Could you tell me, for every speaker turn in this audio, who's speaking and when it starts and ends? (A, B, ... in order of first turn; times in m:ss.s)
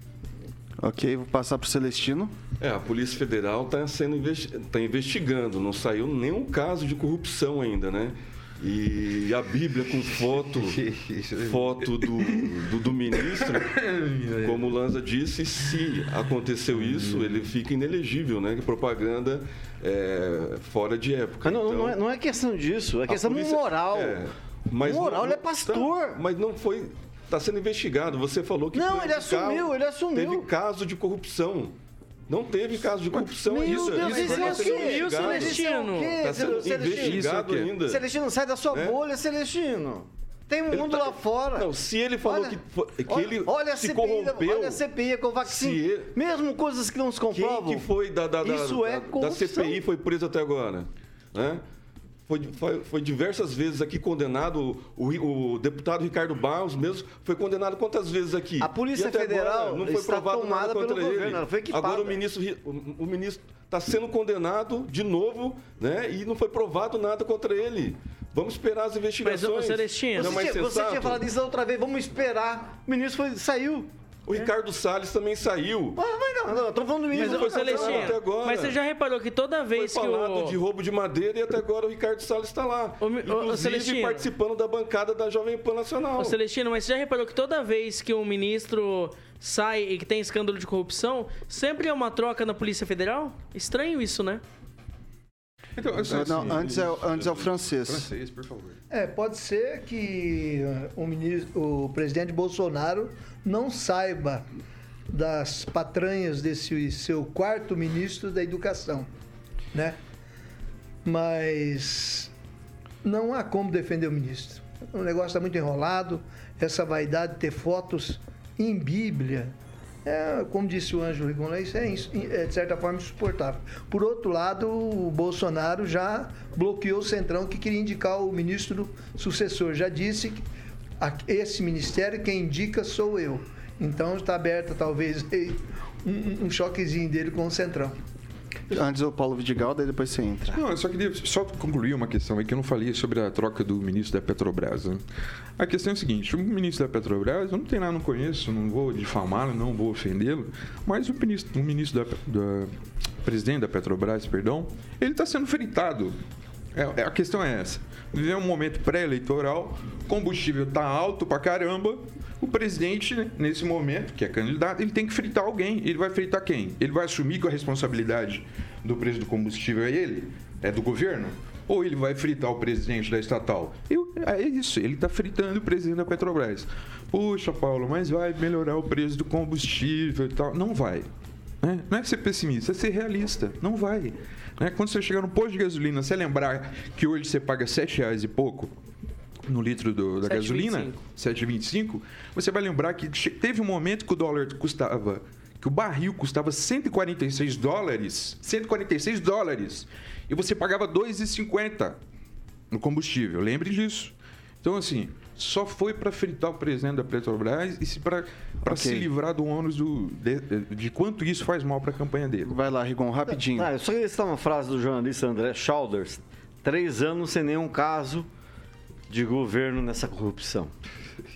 0:00.8-0:02.3 A
0:02.6-0:10.8 B
0:10.7-0:12.5 C
0:11.4-0:13.8 B
0:13.2-0:14.7 C
0:14.4-0:22.0 B
0:16.7-0:17.5 C
0:21.4-0:24.2 D
0:23.1-0:31.7 B
0:24.8-0:26.2 D
0:28.7-0:30.5 D
0:32.3-0:35.6 B
0:33.1-0:34.8 C
0:33.5-0:41.7 D
0:33.6-0:36.2 E
0:36.2-0:38.0 B
0:36.9-0:37.8 C
0:38.7-0:39.0 B
0:40.7-0:44.8 B
0:42.2-0:47.9 D
0:45.4-0:46.1 B
0:47.3-0:51.6 B
0:48.4-0:49.8 D
0:52.3-1:11.2 B
0:58.6-1:02.2 D
1:09.2-1:10.4 E
1:10.2-1:13.9 D
1:14.3-1:16.0 B
1:16.0-1:18.2 D
1:17.1-1:18.8 B
1:17.1-1:20.6 E
1:19.7-1:26.4 B
1:23.0-1:24.3 E
1:26.2-1:34.4 E
1:35.8-1:38.8 C
1:36.0-1:38.1 A
1:38.9-1:44.4 F
1:45.1-1:49.1 F
1:49.7-1:50.0 F
1:51.0-1:52.3 F
1:53.0-1:59.5 F
2:00.0-2:10.4 F
2:11.0-2:18.0 F
2:18.7-2:20.6 A
2:20.5-2:25.0 C
2:25.6-2:32.7 C
2:33.2-2:36.2 C
2:36.7-3:01.1 C
3:01.6-3:08.7 C
3:09.4-3:22.0 C
3:10.2-3:11.0 E
3:22.7-3:32.5 C
3:28.6-3:29.1 A
3:32.4-3:33.7 A
3:33.4-3:38.3 D
3:39.1-3:40.7 D